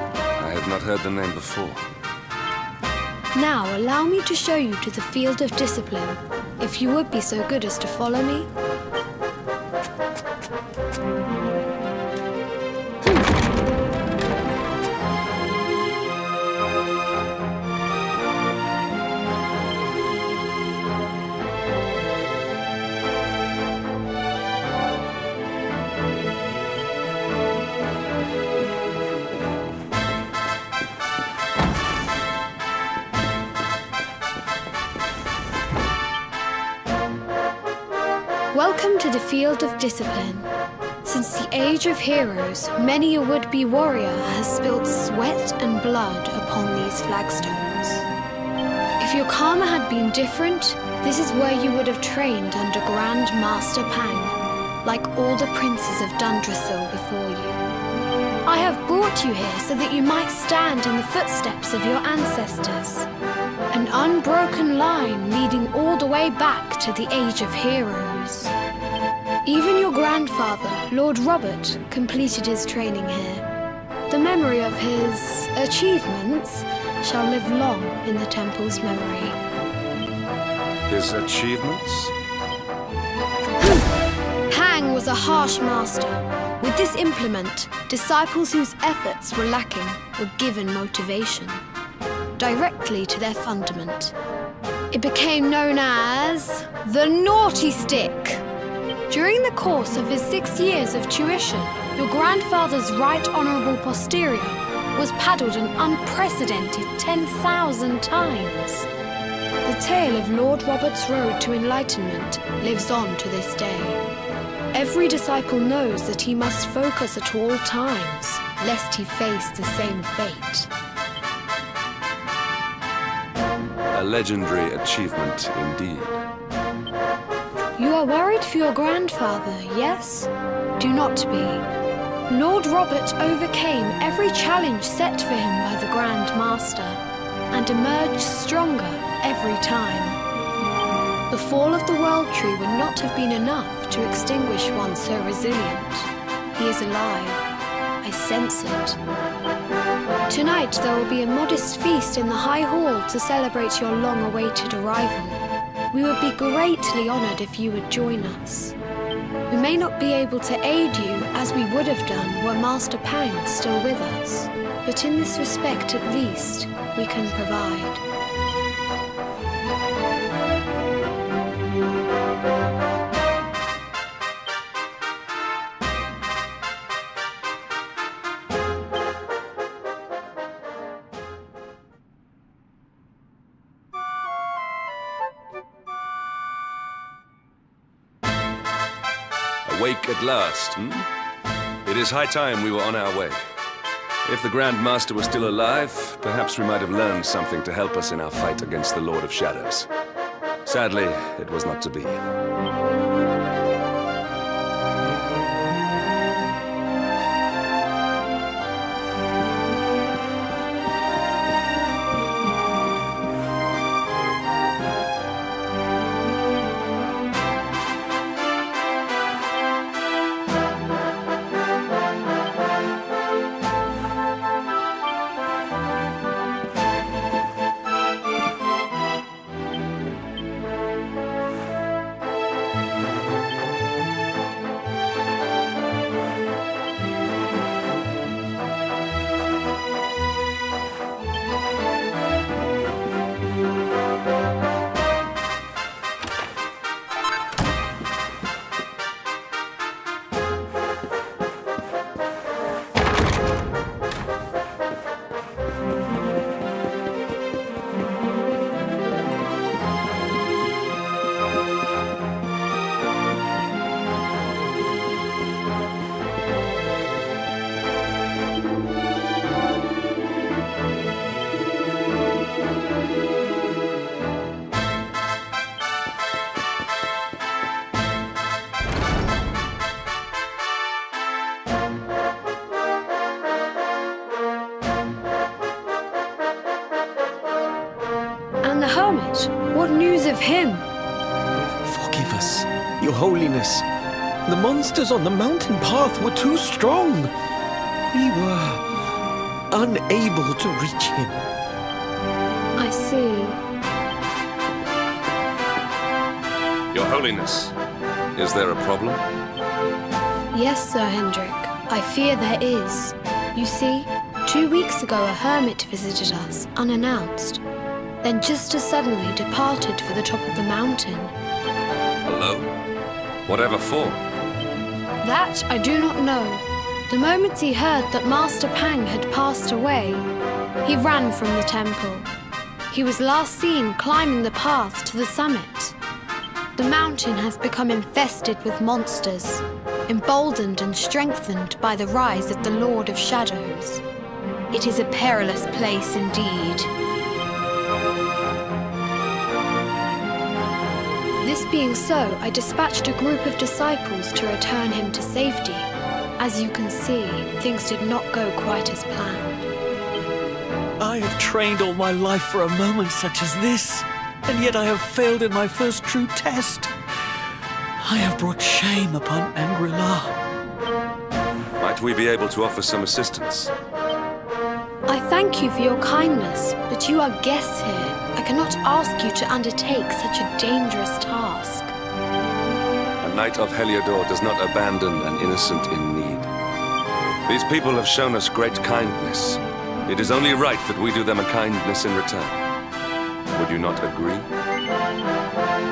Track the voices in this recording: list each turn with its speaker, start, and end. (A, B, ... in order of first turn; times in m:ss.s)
0:00.4-0:01.8 A
0:03.3-0:08.5 B
0:38.5-0:40.5 B
0:41.0-0:48.1 B
0:49.0-0:57.6 B
0:58.4-1:03.1 B
1:03.7-1:08.5 B
1:09.4-1:13.4 B
1:14.1-1:19.4 B
1:20.9-1:22.1 A
1:23.6-1:23.9 B
1:24.5-1:31.6 B
1:32.4-1:34.1 B
1:34.9-1:38.4 B
1:39.1-1:48.9 B
1:49.6-1:54.0 B
1:54.7-2:00.7 B
2:03.9-2:06.2 A
2:07.8-2:11.6 B
2:12.3-2:20.2 B
2:21.3-2:27.4 B
2:28.0-2:29.0 B
2:30.3-2:35.4 B
2:35.9-2:38.8 B
2:39.5-2:48.0 B
3:09.6-3:11.1 A
3:11.8-3:13.4 A
3:14.2-3:19.9 A
3:20.6-3:22.2 A
4:48.6-4:50.8 B
4:51.9-4:53.8 C
4:54.5-4:57.3 C
4:58.1-4:58.8 C
4:59.7-5:01.3 C
5:02.8-5:03.6 B
5:06.9-5:07.7 A
5:08.3-5:09.2 A
5:10.5-5:17.6 B
5:18.2-5:21.3 B
5:22.2-5:22.7 A
5:23.4-5:24.2 A
5:25.2-5:30.3 B
5:30.8-5:32.3 B
5:32.9-5:36.0 B
5:36.8-5:44.0 B
5:44.7-5:46.9 B
5:51.4-5:59.7 B
6:01.0-6:06.9 D
6:08.0-6:10.3 D
6:11.8-6:13.7 A
6:15.1-6:21.9 B
6:23.2-6:26.5 A
6:27.5-6:32.6 A
6:33.5-6:34.5 A